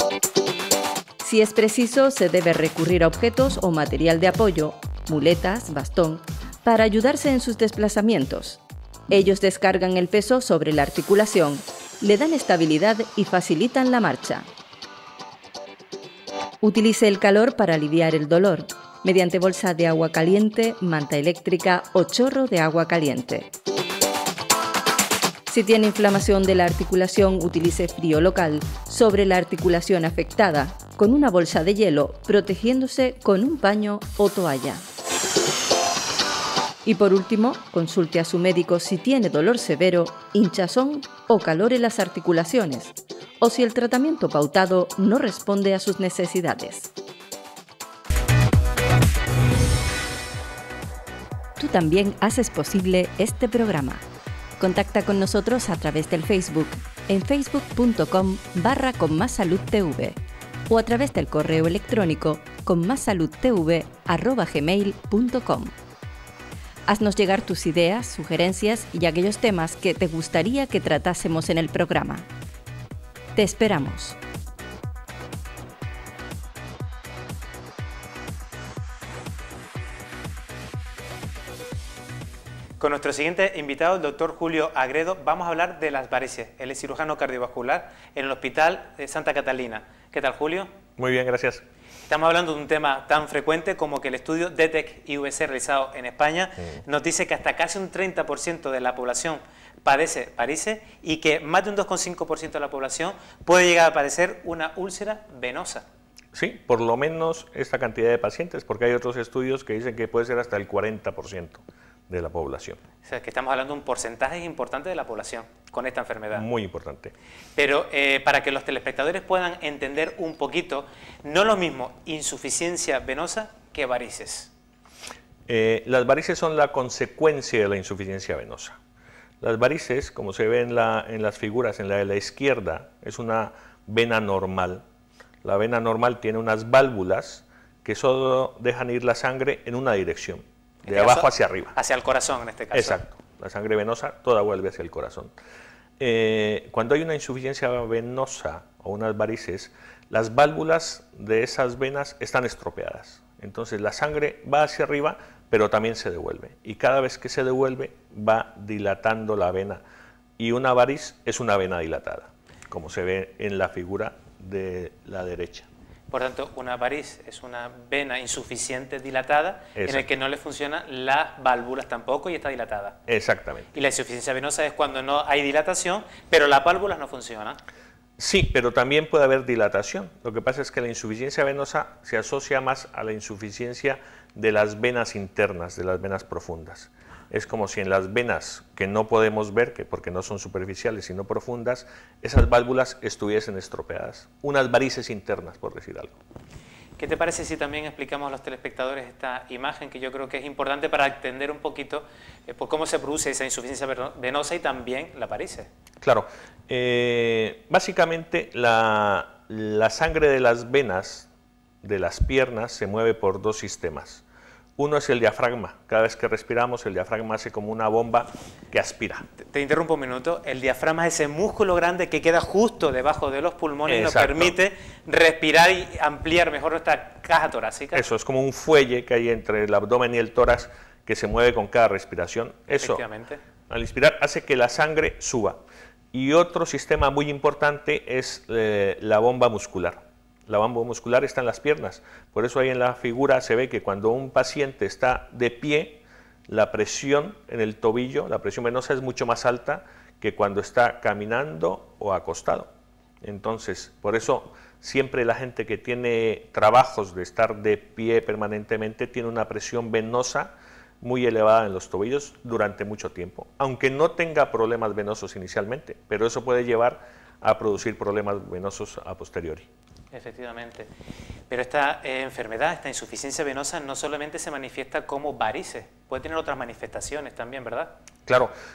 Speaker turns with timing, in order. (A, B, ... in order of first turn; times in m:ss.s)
0:01.2-0:14.5 A
0:16.6-0:23.5 A
0:25.5-0:34.9 A
0:36.8-0:46.9 A
0:51.6-0:54.0 A
0:54.6-1:05.8 A
1:06.9-1:12.3 A
1:13.4-1:14.2 A
1:22.8-1:30.7 B
1:31.0-1:31.6 C
1:32.1-1:45.8 B
1:46.3-1:52.8 C
1:53.0-1:56.5 B
1:56.3-1:57.1 C
1:57.6-2:04.5 B
2:05.5-2:08.8 C
2:09.4-2:14.8 C
2:15.4-2:21.8 C
2:20.8-2:23.0 B
2:22.7-2:25.3 C
2:26.0-2:39.8 C
2:40.4-2:45.7 C
2:46.1-2:53.0 B
2:49.8-2:50.0 C
2:53.1-2:53.7 C
2:53.7-2:57.6 B
2:58.2-3:16.2 C
3:17.0-3:25.7 B
3:26.0-3:31.3 C
3:31.8-3:34.2 C
3:34.8-3:39.3 C
3:39.4-3:48.0 B
3:43.9-3:44.6 C
3:47.9-3:53.0 C
3:52.7-3:53.4 B
3:53.7-3:55.6 C
3:56.1-4:12.7 C
4:13.2-4:29.7 C
4:30.1-4:30.9 B
4:31.5-4:37.9 B
4:38.3-4:38.5 C